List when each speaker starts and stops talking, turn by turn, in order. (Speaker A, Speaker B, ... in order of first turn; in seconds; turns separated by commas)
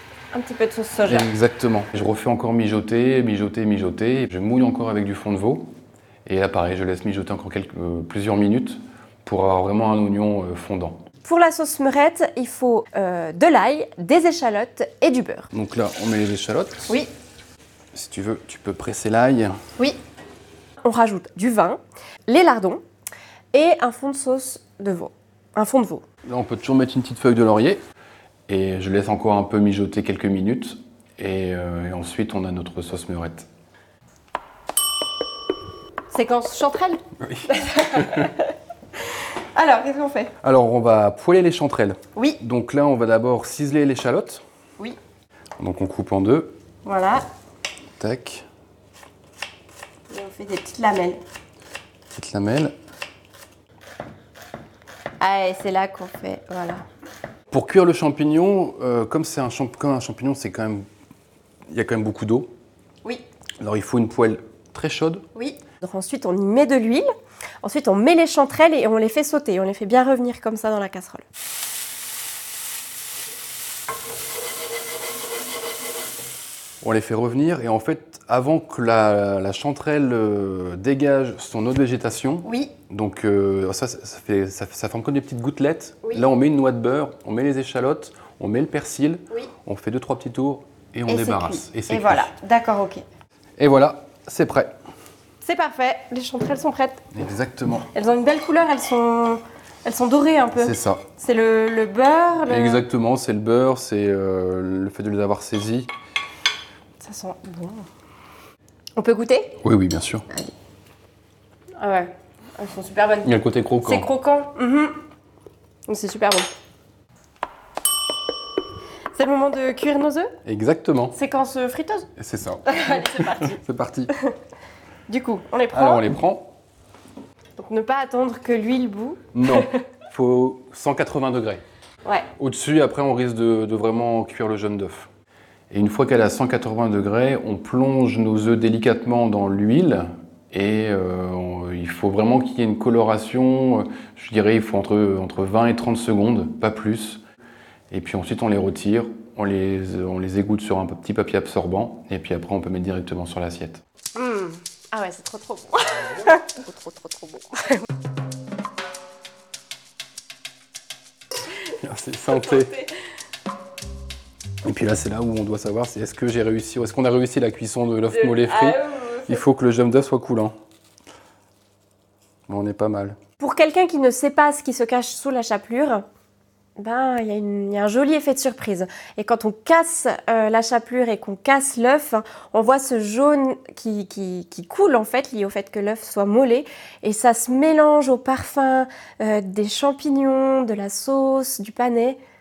Speaker A: 0.3-1.3, Speaker B: 1.1-5.7, Speaker B: 6.2-11.0, Speaker A: 11.2-15.5, Speaker B: 15.5-17.0, Speaker B: 17.9-19.6, Speaker A: 20.8-22.8, Speaker A: 23.5-26.0, Speaker B: 26.2-27.8, Speaker B: 28.5-33.5, Speaker A: 36.1-38.5, Speaker B: 37.2-38.3, Speaker A: 39.5-40.3, Speaker B: 40.4-44.4, Speaker B: 45.6-46.5, Speaker A: 46.9-47.2, Speaker B: 48.0-48.5, Speaker A: 50.1-51.2, Speaker B: 52.1-52.7, Speaker A: 55.2-56.8, Speaker B: 57.5-60.9, Speaker B: 61.7-62.5, Speaker B: 63.6-65.2, Speaker A: 65.3-67.0, Speaker A: 67.6-71.2, Speaker B: 76.8-92.3, Speaker A: 82.4-82.7, Speaker A: 91.1-93.0, Speaker B: 93.6-94.7, Speaker A: 95.4-97.1, Speaker B: 97.1-97.9, Speaker A: 97.9-102.8, Speaker B: 100.6-101.0, Speaker B: 102.5-105.9, Speaker A: 107.0-107.9, Speaker A: 109.0-109.6, Speaker B: 109.6-110.2, Speaker A: 111.8-113.3, Speaker B: 113.2-114.1, Speaker A: 113.8-115.0, Speaker A: 115.9-116.5, Speaker A: 119.2-120.3, Speaker B: 120.4-121.2, Speaker A: 121.1-122.1, Speaker B: 122.2-124.1, Speaker A: 122.7-123.6, Speaker A: 125.1-126.0, Speaker B: 125.7-126.5, Speaker A: 127.6-129.8, Speaker B: 129.3-131.6, Speaker B: 132.4-135.1, Speaker B: 135.7-147.2, Speaker B: 147.9-153.8, Speaker A: 154.2-157.8, Speaker B: 161.7-162.8, Speaker A: 162.6-162.8, Speaker B: 164.6-170.5, Speaker A: 168.1-169.4, Speaker B: 172.5-173.2, Speaker A: 173.4-176.0, Speaker A: 176.8-192.2